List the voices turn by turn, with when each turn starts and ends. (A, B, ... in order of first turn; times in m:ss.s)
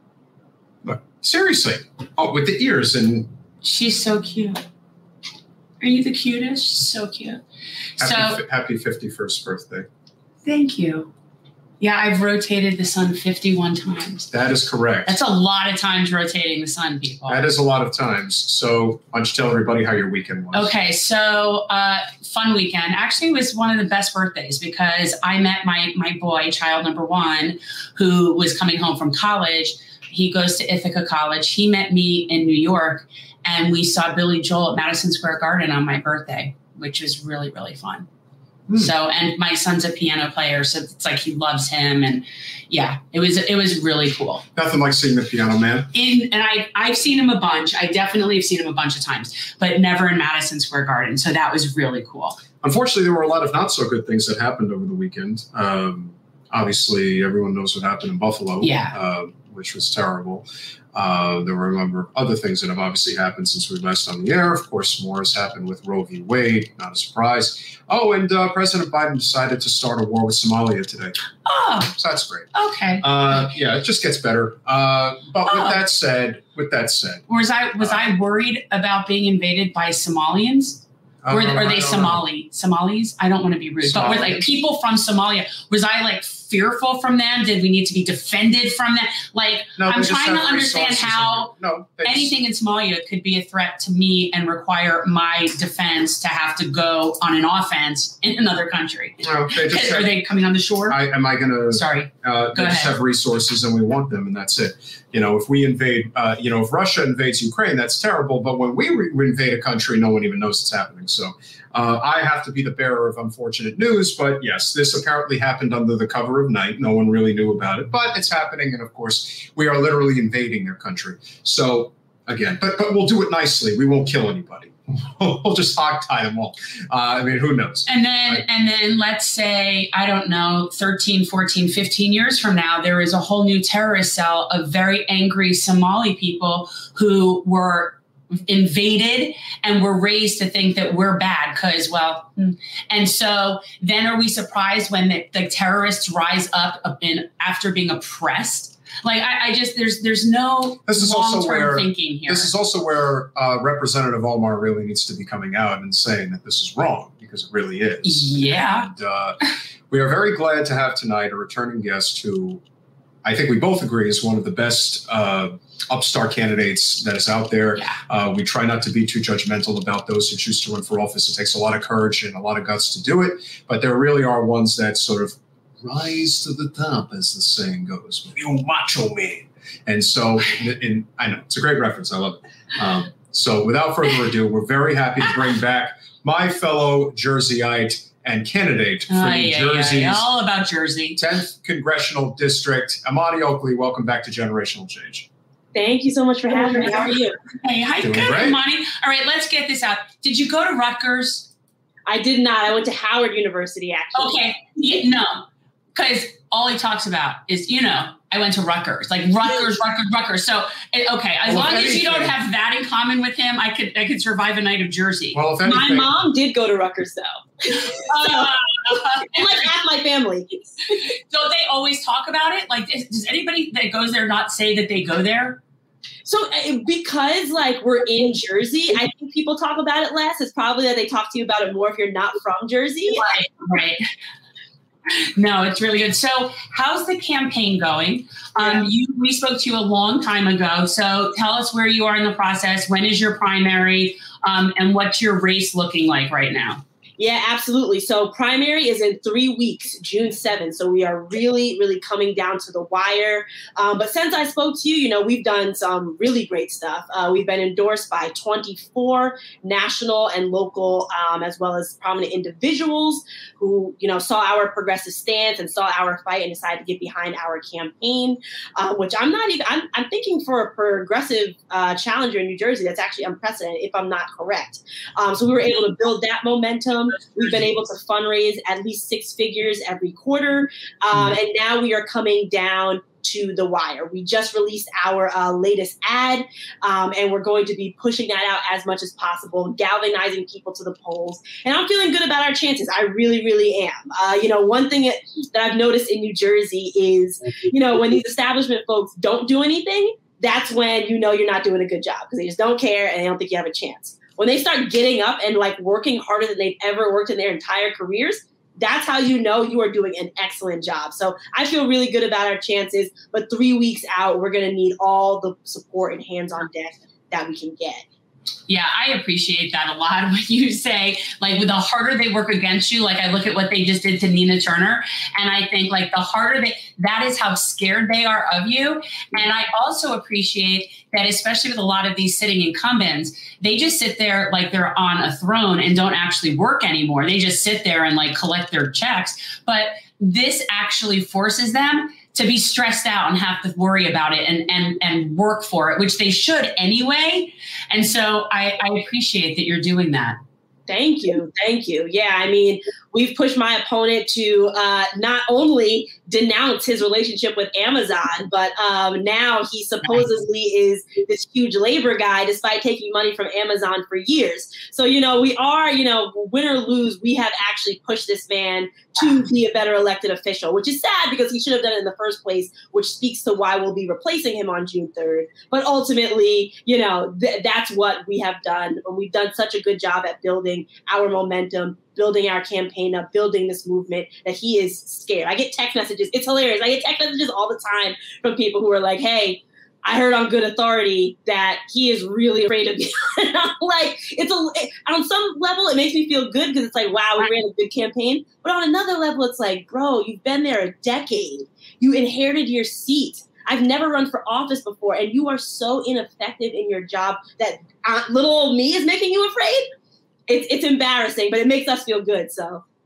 0:00.8-0:03.3 A
0:03.6-0:04.6 B
0:05.8-0:07.4 B
0:08.0-0:08.4 B
0:08.0-0:09.9 A
0:10.4-0:11.1 B
0:11.8-0:14.3 B
0:14.3-0:15.2 A
0:15.0-0:17.5 B
0:17.3-0:20.7 A
0:20.5-0:38.1 B
0:38.7-0:44.4 B
0:44.6-0:45.9 A
0:45.9-0:52.4 B
0:52.6-1:11.2 A
0:58.6-0:59.0 B
1:11.4-1:12.0 B
1:12.0-1:12.5 A
1:12.5-1:13.0 B
1:13.0-1:17.2 A
1:15.5-1:15.8 B
1:17.3-1:31.5 B
1:21.2-1:22.2 A
1:23.8-1:24.4 A
1:29.8-1:32.3 A
1:32.0-1:41.0 B
1:39.2-1:40.1 A
1:40.9-2:08.4 A
1:41.7-1:42.9 B
2:07.9-2:32.5 B
2:30.8-2:39.4 A
2:38.0-2:38.9 B
2:39.9-2:42.6 A
2:43.2-3:10.3 A
3:09.1-3:11.2 B
3:11.2-3:15.3 A
3:15.8-3:17.4 C
3:16.5-3:21.5 B
3:18.0-3:18.6 A
3:22.1-3:24.5 C
3:24.1-3:35.4 B
3:31.4-3:32.3 A
3:35.3-3:36.1 A
3:35.6-3:38.5 C
3:37.7-3:39.7 B
3:39.2-3:41.0 C
3:40.9-3:45.6 B
3:46.2-3:53.3 C
3:53.1-3:54.0 B
3:55.1-4:06.8 B
4:07.2-5:18.0 C
5:18.7-5:50.4 B
5:50.9-6:49.9 C
6:50.5-6:52.8 C